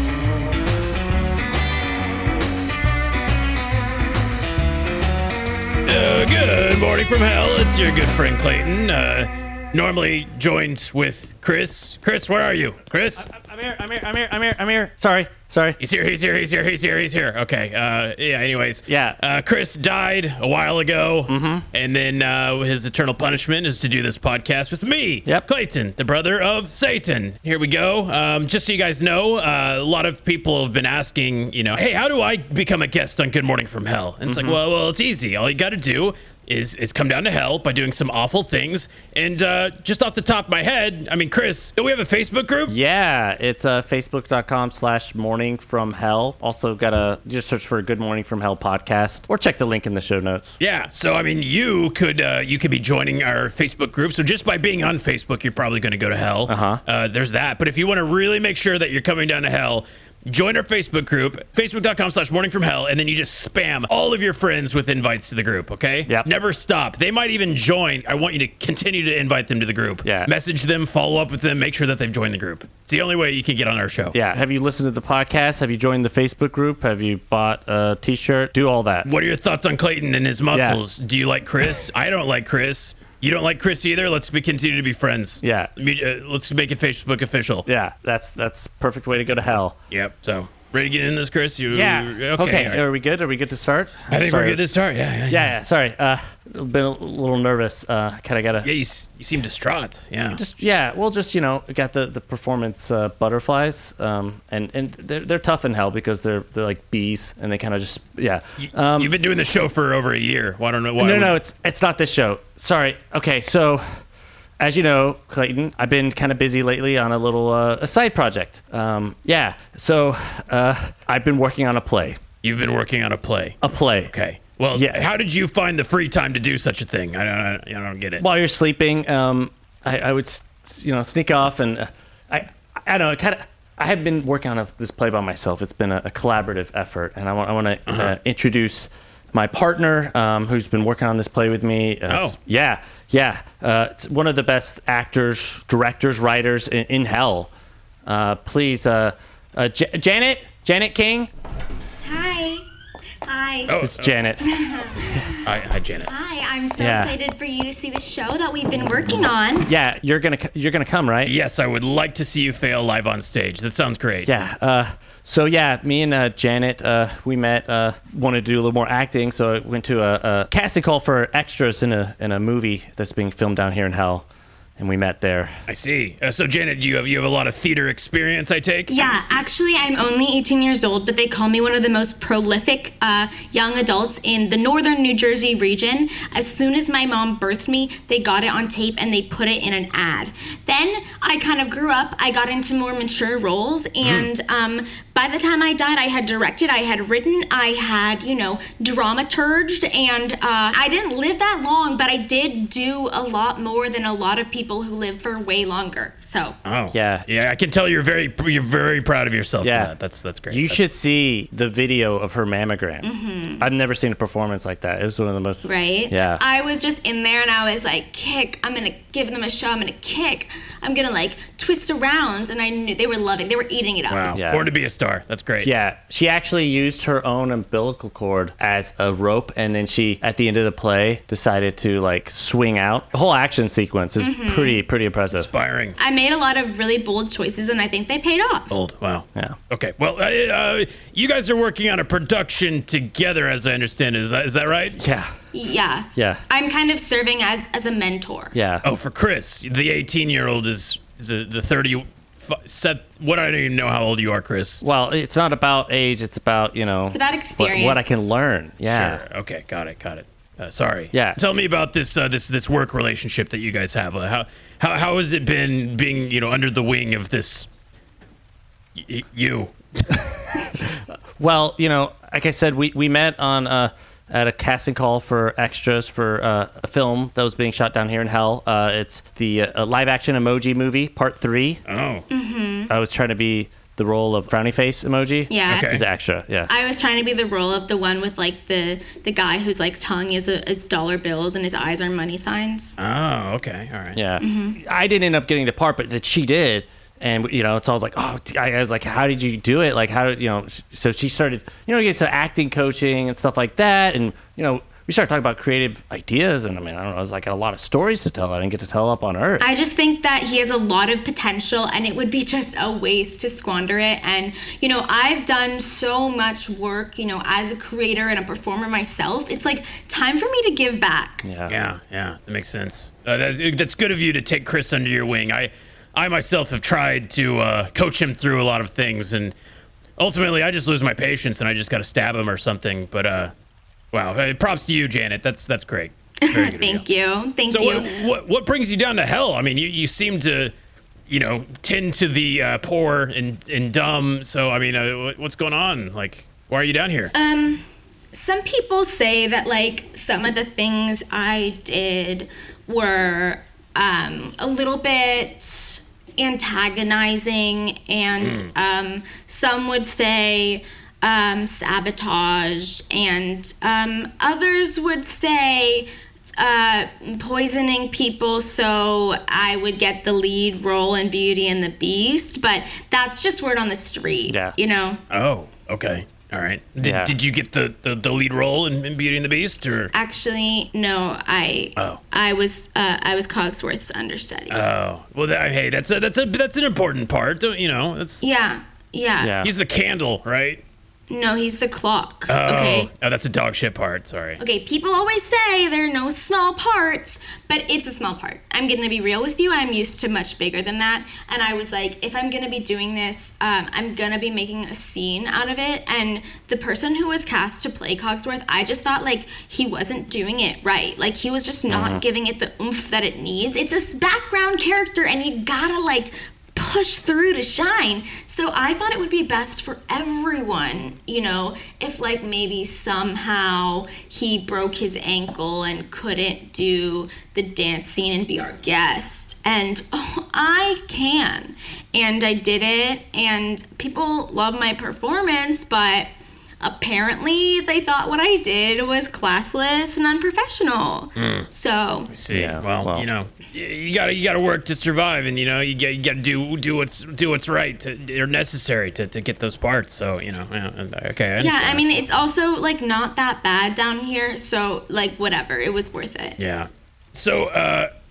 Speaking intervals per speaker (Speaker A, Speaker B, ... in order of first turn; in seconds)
Speaker A: 5.8-13.3, 15.8-42.8, 50.6-74.2, 79.0-87.7, 89.9-92.8, 94.1-95.6, 98.6-100.4, 108.6-111.3, 122.4-123.6, 124.1-128.2, 137.9-138.1, 142.1-142.4, 153.7-154.2, 155.4-156.1, 161.2-164.3, 175.7-178.9, 194.0-194.3, 206.7-210.8, 224.1-225.7, 235.3-236.0, 238.7-245.0, 248.8-254.8, 258.9-267.7, 269.0-270.3, 281.9-282.2, 285.7-286.0, 293.0-294.2, 321.7-329.5, 330.2-333.5, 334.1-337.0, 337.7-340.7, 341.3-347.3, 358.4-358.7, 375.3-380.1, 384.7-388.5, 389.6-390.8, 392.5-394.6, 441.4-441.7, 442.3-452.2, 456.6-458.1
Speaker B: 13.2-15.8, 18.9-19.2, 21.3-21.6, 34.3-34.6, 42.7-50.6, 56.5-56.8, 70.0-70.3, 74.1-79.1, 80.5-80.8, 85.4-85.7, 87.7-89.8, 91.7-94.6, 95.3-98.7, 100.3-109.1, 111.0-113.8, 114.6-122.2, 123.6-124.1, 124.7-125.1, 128.2-147.5, 148.1-151.3, 153.8-154.5, 156.8-157.1, 159.7-161.3, 164.3-174.3, 174.8-175.6, 206.9-207.3, 209.6-209.9, 210.5-213.1, 213.6-216.4, 224.3-224.7, 225.6-235.5, 245.0-245.3, 246.2-246.4, 248.5-248.8, 254.8-259.2, 261.1-261.4, 270.6-281.8, 282.9-286.7, 294.1-309.8, 321.4-321.7, 374.5-374.8, 377.0-377.3, 389.4-389.7, 411.9-412.2, 442.5-443.3
Speaker C: 152.0-152.7, 153.2-153.8, 154.4-155.5, 156.1-159.7, 178.9-206.6, 213.0-213.7, 215.6-224.3, 234.2-234.8, 236.0-238.7, 245.5-248.5, 257.1-258.2, 282.3-282.9, 285.5-285.9, 286.7-293.0, 294.4-294.8, 309.6-321.4, 336.4-338.1, 347.3-375.2, 380.1-384.8, 388.4-389.6, 391.3-393.1, 394.6-436.3, 436.8-442.3, 451.6-456.6